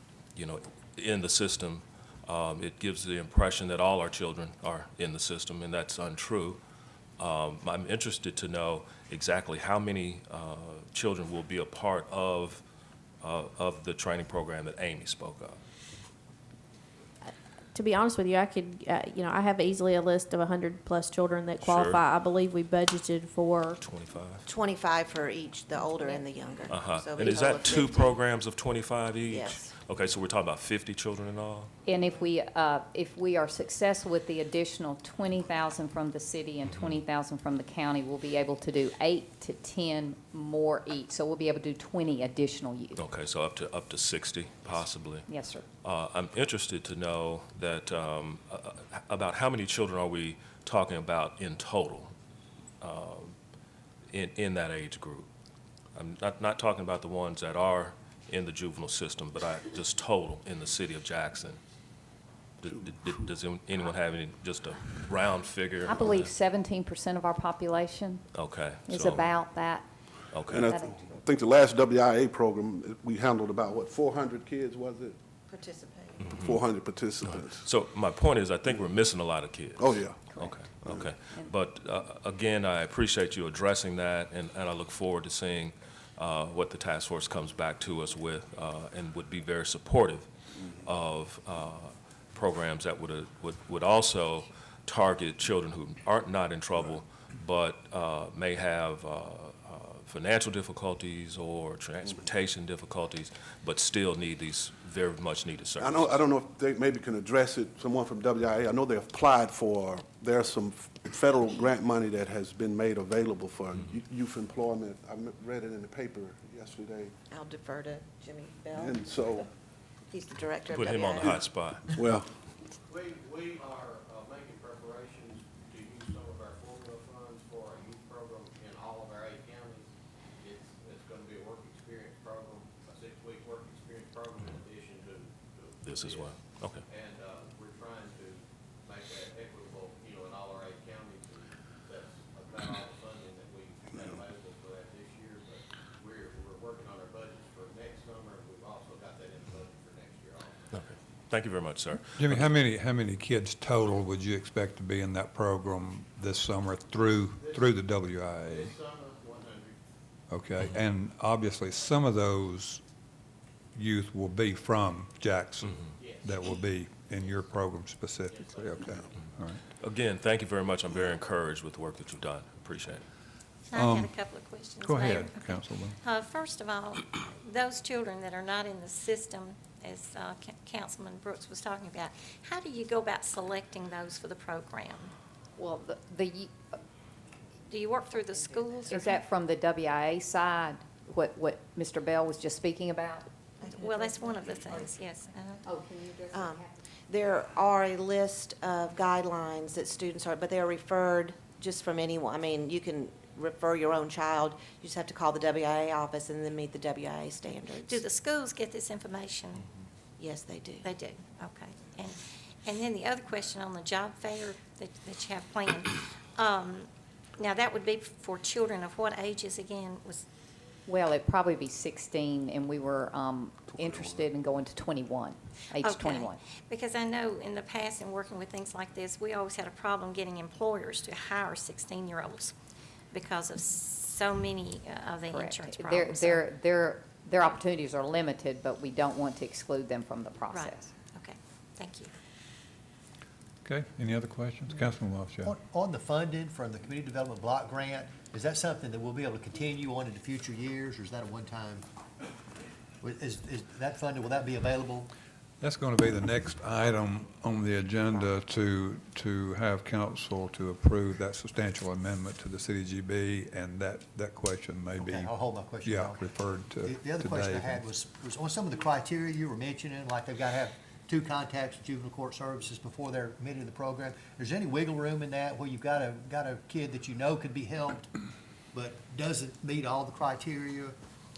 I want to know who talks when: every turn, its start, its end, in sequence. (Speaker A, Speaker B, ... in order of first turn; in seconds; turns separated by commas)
Speaker A: 0.3-6.6, Speaker A: 7.2-12.6, Speaker A: 13.2-15.6, Speaker B: 17.3-23.8, Speaker A: 21.6-22.0, Speaker A: 23.8-24.4, Speaker C: 24.4-28.1, Speaker A: 26.7-31.7, Speaker C: 29.3-29.7, Speaker D: 31.9-43.0, Speaker A: 43.0-45.3, Speaker D: 45.3-45.6, Speaker A: 45.8-52.1, Speaker A: 52.8-53.4, Speaker A: 54.1-55.3, Speaker A: 55.9-61.6, Speaker A: 62.6-66.1, Speaker D: 65.8-68.3, Speaker A: 68.3-69.3, Speaker D: 68.8-69.9, Speaker A: 70.3-70.6, Speaker E: 70.5-75.2, Speaker D: 70.6-71.0, Speaker C: 75.5-76.3, Speaker A: 76.2-76.5, Speaker E: 76.3-77.7, Speaker A: 77.2-90.3, Speaker E: 79.8-80.3, Speaker D: 80.3-80.6, Speaker E: 80.8-81.1, Speaker A: 90.8-106.2, Speaker E: 105.8-117.1, Speaker C: 117.3-119.0, Speaker E: 118.7-119.5, Speaker C: 120.1-121.5, Speaker A: 120.7-121.8, Speaker E: 122.0-122.3, Speaker F: 122.9-129.9, Speaker F: 130.4-150.7, Speaker A: 135.8-136.8, Speaker A: 150.7-152.5, Speaker G: 152.1-158.7, Speaker F: 157.1-157.8, Speaker F: 158.5-159.8, Speaker G: 160.3-162.8, Speaker G: 163.7-169.6, Speaker F: 166.0-166.3, Speaker F: 168.3-168.9, Speaker A: 169.8-173.0, Speaker H: 173.7-185.1, Speaker G: 173.7-174.2, Speaker G: 174.8-176.0, Speaker D: 185.6-186.5, Speaker H: 187.7-189.0, Speaker D: 188.9-193.3, Speaker C: 193.6-194.8, Speaker H: 193.7-195.6, Speaker D: 195.6-196.8, Speaker C: 196.3-208.0, Speaker H: 207.9-209.6, Speaker C: 210.2-210.8, Speaker H: 210.8-216.9, Speaker H: 217.4-220.2, Speaker D: 220.8-226.4, Speaker H: 225.8-232.5, Speaker H: 233.1-236.4, Speaker D: 235.2-240.9, Speaker H: 240.5-242.1, Speaker G: 243.6-245.5, Speaker I: 245.4-251.8, Speaker I: 253.0-255.1, Speaker G: 255.6-265.3, Speaker I: 264.9-278.1, Speaker G: 265.8-267.8, Speaker I: 278.7-280.9